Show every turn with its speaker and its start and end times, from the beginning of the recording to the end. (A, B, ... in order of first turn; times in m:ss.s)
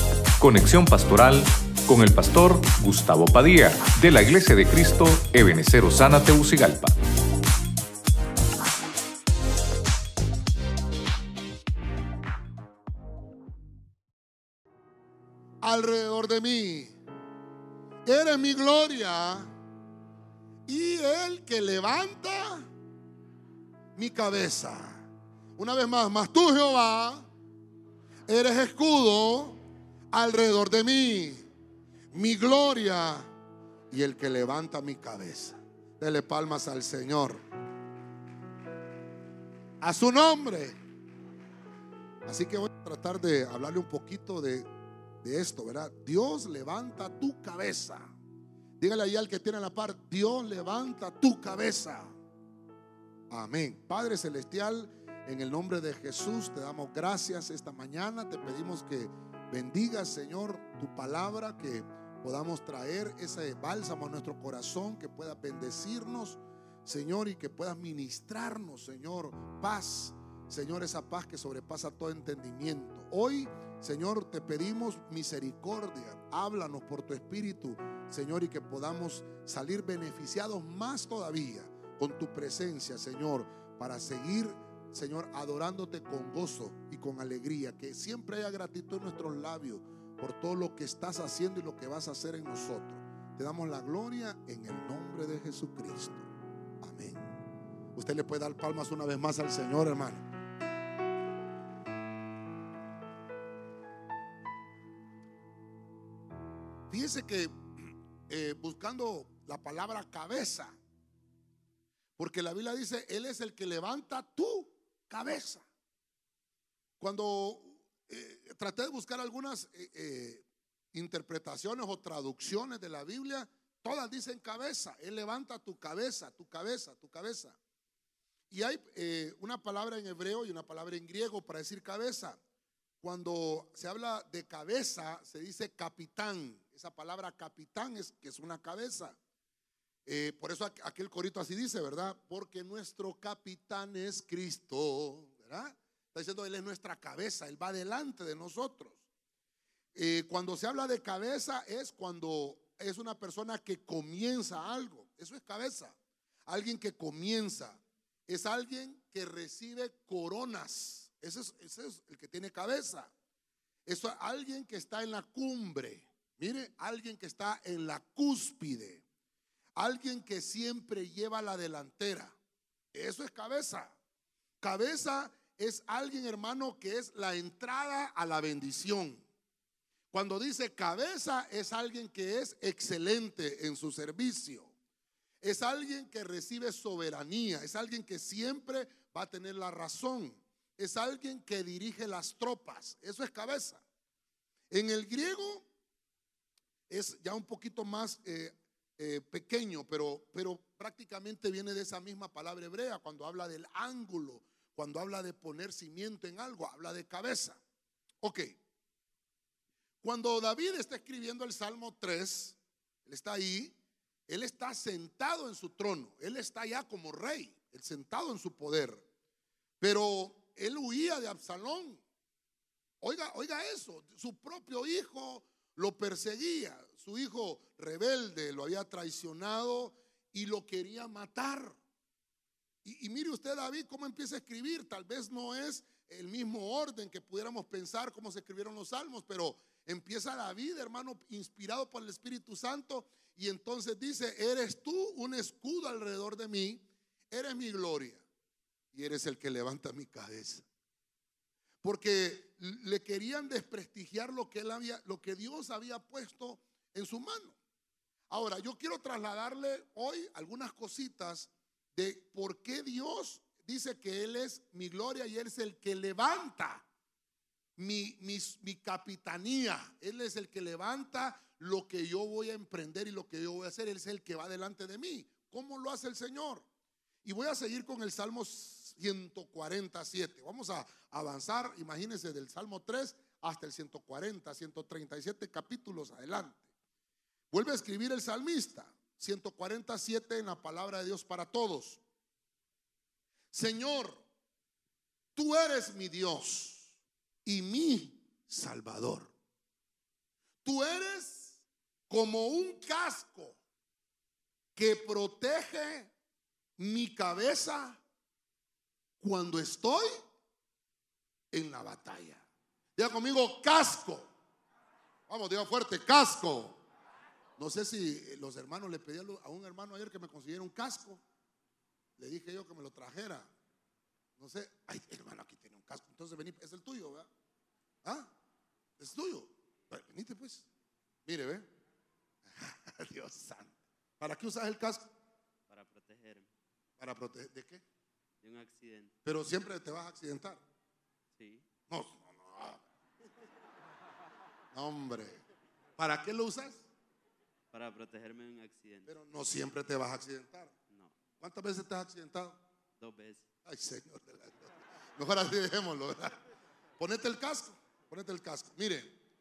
0:00.4-0:06.9 A
0:15.6-0:16.9 B
0:18.0-0:19.5 B
0:20.6-0:22.7 B
0:24.0-0:27.3 B
0:28.3-0:29.6 B
0:30.1-0:31.4 B
0:32.1-0:33.3 B
0:33.9-0:37.4 B
0:39.8-0:40.8 B
0:42.2-0:44.7 B
0:45.2-0:48.1 B
0:48.8-0:52.1 B
0:53.3-1:36.2 B
1:36.8-1:37.3 B
1:37.9-1:40.2 B
1:46.9-1:50.8 B
1:52.2-1:55.6 B
1:57.0-2:07.6 B
2:08.5-2:12.4 B
2:13.0-2:19.2 B
2:20.0-2:29.0 B
2:29.9-2:43.1 B
2:43.8-2:49.0 B
2:49.8-2:52.4 B
2:52.9-2:53.9 B
2:54.6-2:59.2 B
3:00.1-3:04.7 B
3:05.4-3:13.8 B
3:14.7-3:15.6 B
3:16.9-3:27.6 B
3:28.2-3:28.5 B
3:30.0-3:33.8 B
3:34.3-3:39.0 B
3:39.8-3:42.0 B
3:43.0-3:51.8 B
3:52.8-4:08.2 B
4:08.9-4:10.6 B
4:11.8-4:17.6 B
4:18.3-4:26.8 B
4:27.8-4:36.6 B
4:37.2-4:46.6 B
4:47.5-4:52.0 B
4:53.5-4:54.2 B
4:55.3-4:56.9 B
4:57.4-4:59.3 B
5:00.6-5:03.6 B
5:04.8-5:06.1 B
5:06.8-5:08.0 B
5:09.2-5:10.1 B
5:11.5-5:12.4 B
5:13.0-5:14.3 B
5:15.3-5:16.8 B
5:17.6-5:21.2 B
5:22.2-5:23.5 B
5:24.4-5:27.3 B
5:28.0-5:28.3 B
5:29.0-5:30.6 B
5:31.2-5:31.7 B
5:32.5-5:35.1 B
5:35.7-5:36.5 C
5:37.0-5:37.8 B
5:38.4-5:39.1 C
5:39.2-5:40.6 B
5:41.3-5:41.6 C
5:41.9-5:42.8 B
5:44.7-5:45.4 B
5:46.0-5:46.9 B
5:47.7-5:49.1 C
5:49.0-5:50.7 B
5:50.9-5:51.2 C
5:51.4-5:52.6 B
5:53.0-5:53.4 C
5:53.6-5:56.4 B
5:57.0-5:59.2 B